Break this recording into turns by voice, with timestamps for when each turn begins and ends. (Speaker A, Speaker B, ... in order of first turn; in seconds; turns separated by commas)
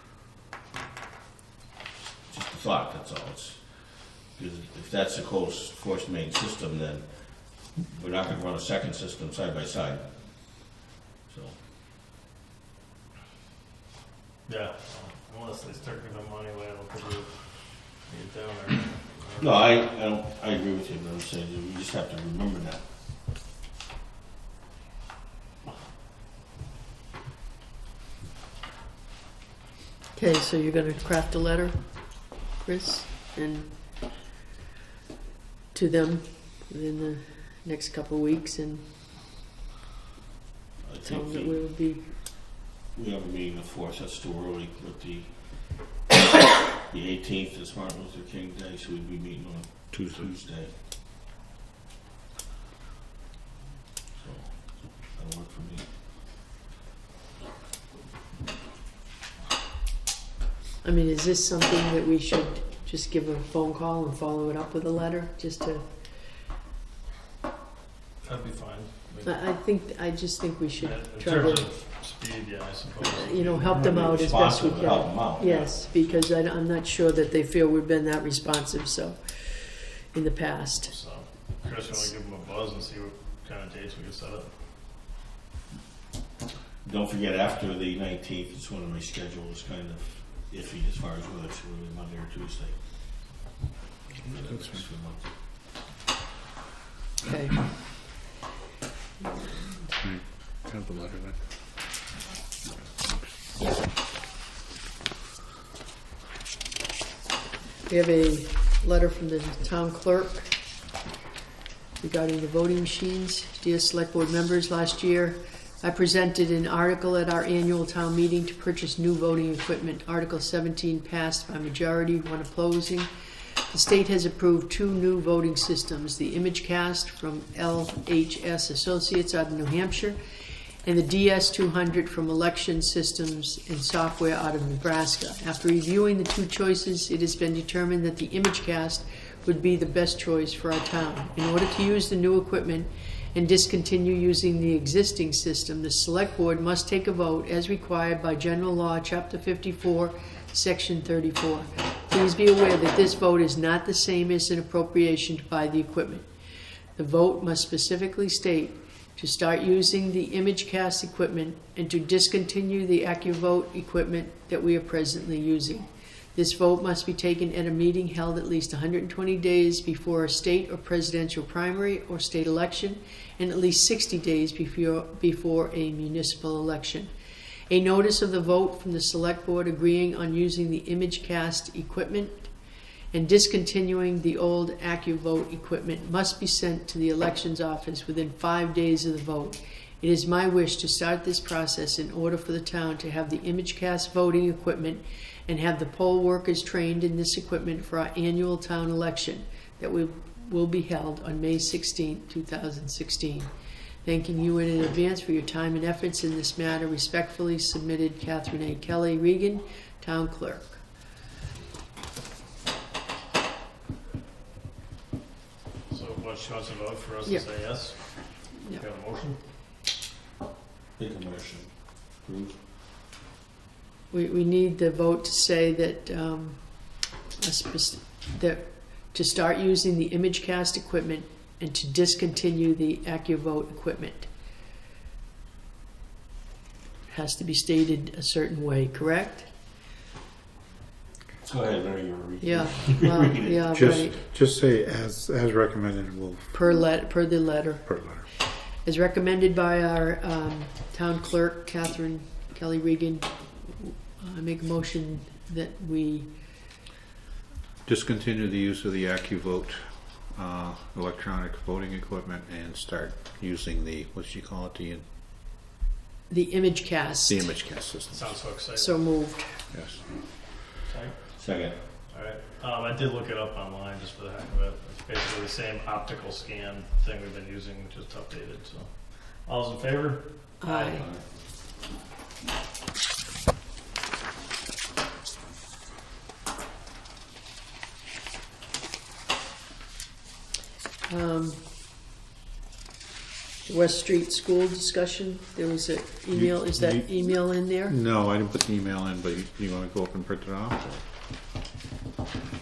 Speaker A: 2.3-11.6, Speaker B: 14.4-19.7, Speaker A: 19.4-22.8, Speaker C: 30.1-33.7, Speaker C: 35.7-38.9, Speaker A: 40.8-41.6, Speaker C: 41.0-42.1, Speaker A: 42.9-45.8, Speaker A: 46.8-50.7, Speaker D: 49.9-50.3, Speaker A: 54.1-55.9, Speaker C: 60.8-65.8, Speaker B: 68.2-69.2, Speaker C: 69.2-71.7, Speaker B: 70.8-73.8, Speaker C: 73.2-80.9, Speaker A: 73.4-75.7, Speaker B: 80.9-84.5, Speaker A: 86.8-92.8, Speaker A: 94.2-95.3, Speaker D: 94.5-94.8, Speaker C: 97.2-97.7, Speaker C: 99.2-99.9, Speaker D: 100.0-101.4, Speaker C: 107.9-110.5, Speaker C: 112.0-123.1, Speaker C: 123.7-130.2, Speaker C: 130.8-156.3, Speaker C: 157.0-177.1, Speaker C: 177.7-182.5, Speaker C: 183.1-203.5, Speaker C: 204.0-210.8, Speaker B: 215.9-219.4, Speaker C: 218.2-218.8, Speaker A: 221.0-222.6, Speaker C: 224.1-234.3, Speaker C: 237.1-239.5, Speaker A: 241.4-243.8, Speaker C: 242.4-244.1, Speaker D: 243.7-246.5, Speaker C: 246.5-247.9, Speaker D: 247.8-248.3, Speaker C: 248.8-256.3, Speaker D: 257.8-265.1, Speaker C: 266.3-267.5, Speaker D: 267.3-268.4, Speaker B: 268.1-269.0, Speaker C: 268.8-269.5, Speaker D: 269.7-270.0, Speaker B: 270.8-271.2, Speaker A: 271.4-271.8, Speaker B: 272.1-281.0, Speaker C: 280.6-281.1, Speaker A: 280.9-281.2, Speaker C: 291.1-291.7, Speaker C: 293.6-297.9, Speaker D: 296.3-301.0